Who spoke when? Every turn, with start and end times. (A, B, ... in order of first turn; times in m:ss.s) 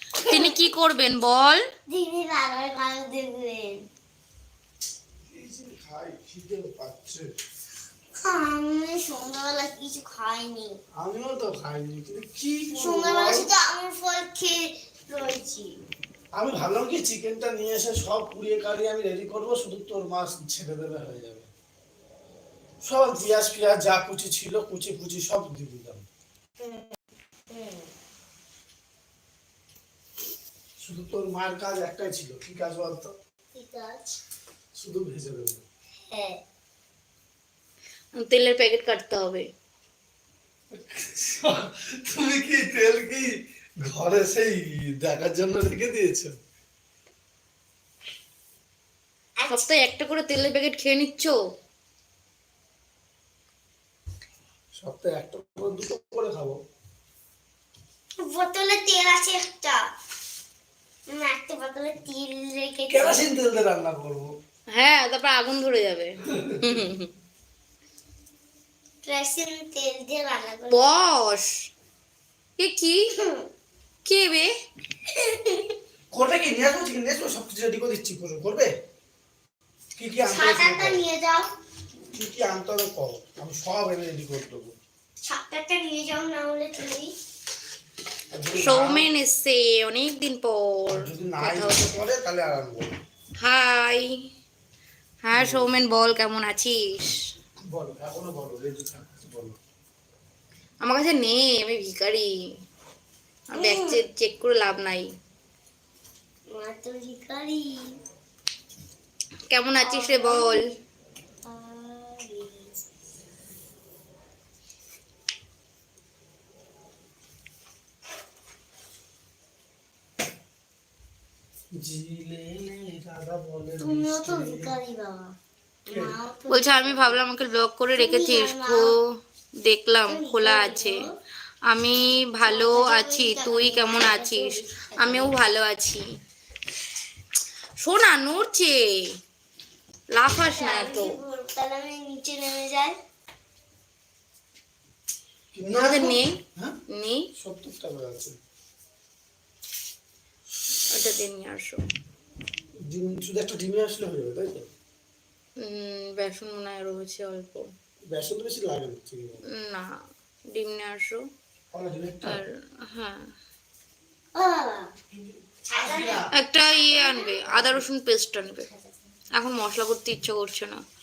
0:00.2-0:00.6 A
0:00.2-0:01.6 B
0:01.9-0:03.8 A
0:05.2-0:07.3 C
0:08.2-0:10.8 A
0:11.0-0:13.5 C
0:12.8-0:15.7 A
0:16.4-0:21.5 C
0:22.8-0:26.1 C
0:26.6-0:27.0 A
0:27.5-0:27.9 A
0:30.8-0:33.1 C
0:33.5-0:34.2 A
0:34.8-0:35.6 C
0:36.1-0:36.4 A
0:38.1-0:39.4 B
0:40.7-0:43.3 C
0:43.9-0:46.3 C
0:49.4-0:49.7 A
0:49.5-0:51.4 B
0:54.8-0:56.6 C
0:58.2-0:59.8 A
1:01.1-1:03.2 A
1:02.9-1:04.3 C
1:04.7-1:07.1 B
1:06.3-1:06.8 C
1:09.0-1:10.9 A
1:10.7-1:11.6 B
1:12.6-1:13.0 B
1:13.2-1:13.5 A
1:14.0-1:14.5 B
1:15.1-1:15.8 A
1:16.1-1:18.7 C
1:20.0-1:21.0 C
1:20.3-1:21.5 A
1:22.1-1:24.8 C
1:25.2-1:27.1 A
1:28.3-1:29.1 C
1:28.6-1:32.1 B
1:30.9-1:32.9 C
1:33.4-1:34.1 B
1:35.2-1:37.2 B
1:35.4-1:35.7 C
1:37.7-1:39.6 C
1:40.8-1:42.3 B
1:43.5-1:45.1 B
1:43.6-1:44.0 A
1:46.5-1:48.0 A
1:49.5-1:50.6 B
1:49.8-1:50.6 A
1:51.4-1:52.8 A
2:01.7-2:04.7 C
2:03.8-2:07.2 A
2:05.9-2:06.2 C
2:06.5-2:11.1 B
2:08.0-2:08.9 A
2:10.1-2:11.1 A
2:11.7-2:16.1 B
2:12.4-2:15.4 A
2:17.8-2:19.1 B
2:20.1-2:21.2 B
2:20.3-2:23.0 A
2:25.5-2:26.8 C
2:25.7-2:27.3 B
2:27.4-2:28.4 C
2:30.8-2:31.8 B
2:32.8-2:34.7 C
2:35.6-2:37.7 B
2:38.1-2:39.4 C
2:39.5-2:39.9 B
2:40.5-2:41.2 B
2:41.7-2:42.4 C
2:42.2-2:43.3 B
2:44.4-2:44.9 A
2:45.7-2:47.9 A
2:45.7-2:46.3 C
2:46.3-2:48.7 B
2:49.3-2:50.8 B